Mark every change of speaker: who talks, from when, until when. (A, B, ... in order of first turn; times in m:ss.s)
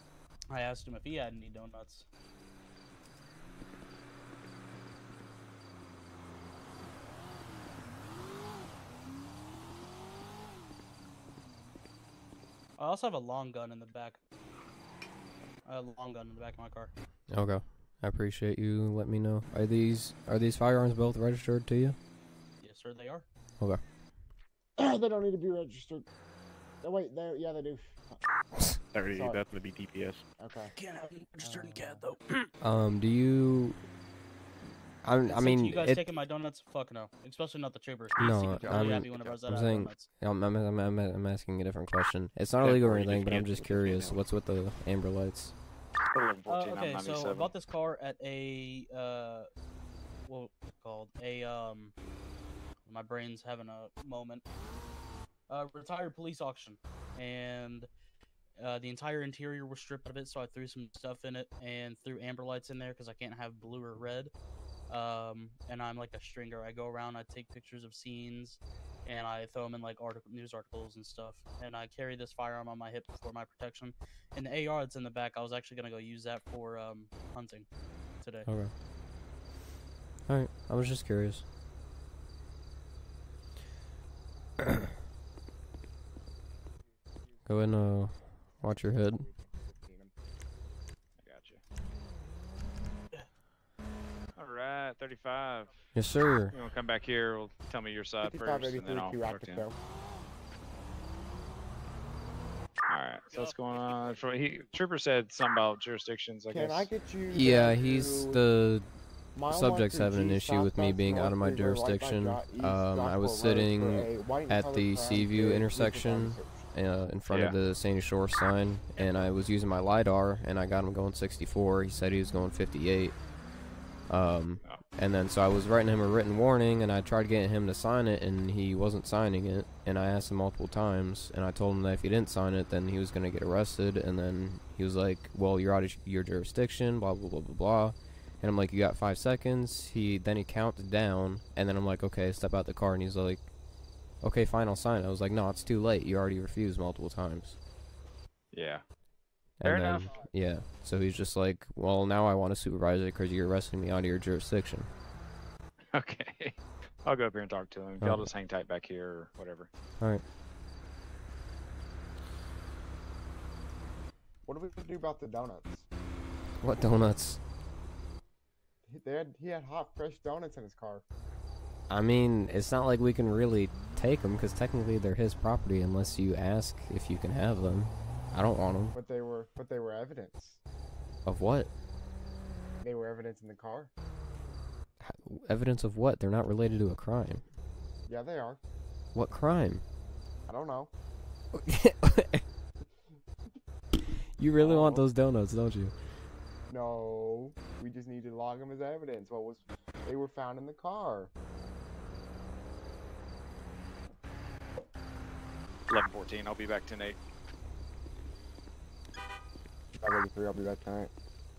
0:00.5-0:02.1 A
0:12.8-0:14.2 A
0:15.6-0:16.9 A
0:17.3-0:22.0 B
0:22.6-0:23.3 A
0:24.8-0:26.1 C
0:26.8-0:28.2 C
0:28.9-0:30.2 D
0:29.1-0:29.4 C
0:30.8-0:32.5 A
0:32.6-0:33.8 B
0:35.0-0:36.0 B
0:35.3-0:40.1 A
0:38.2-0:45.6 B
0:38.6-0:39.4 C
0:42.6-0:44.2 D
0:46.1-0:47.5 E
0:46.5-0:49.5 A
0:50.3-0:52.0 A
0:52.9-0:54.4 A
0:55.5-0:57.9 A
0:58.6-1:04.3 A
1:04.9-1:17.7 A
1:18.2-1:18.5 A
1:18.5-1:18.7 B
1:20.3-1:21.4 B
1:27.4-1:29.3 B
1:29.5-1:30.1 E
1:31.2-1:31.6 E
1:34.4-1:35.7 E
1:35.9-1:36.5 B
1:36.5-1:39.6 E
1:38.2-1:39.8 C
1:42.9-1:46.9 E
1:46.5-1:48.4 C
1:47.3-1:48.9 B
1:49.3-1:56.7 C
1:49.5-2:03.3 B
1:57.3-1:57.6 E
2:04.1-2:27.6 B
2:28.5-2:28.8 E
2:29.6-2:34.9 B
2:29.6-2:30.3 E
2:35.9-2:39.7 E
2:38.0-2:38.3 B
2:44.5-2:45.8 C
2:46.6-2:47.4 B
2:48.9-2:51.0 C
2:51.9-2:59.0 B
2:58.9-3:00.6 C
3:01.2-3:01.7 B
3:02.8-3:03.9 C
3:05.0-3:07.5 B
3:08.1-3:08.6 C
3:09.1-3:09.8 B
3:10.5-3:10.9 C
3:11.6-3:12.4 B
3:14.4-3:15.9 B
3:14.6-3:15.0 C
3:16.7-3:21.3 C
3:25.9-3:27.2 E
3:30.0-3:31.1 C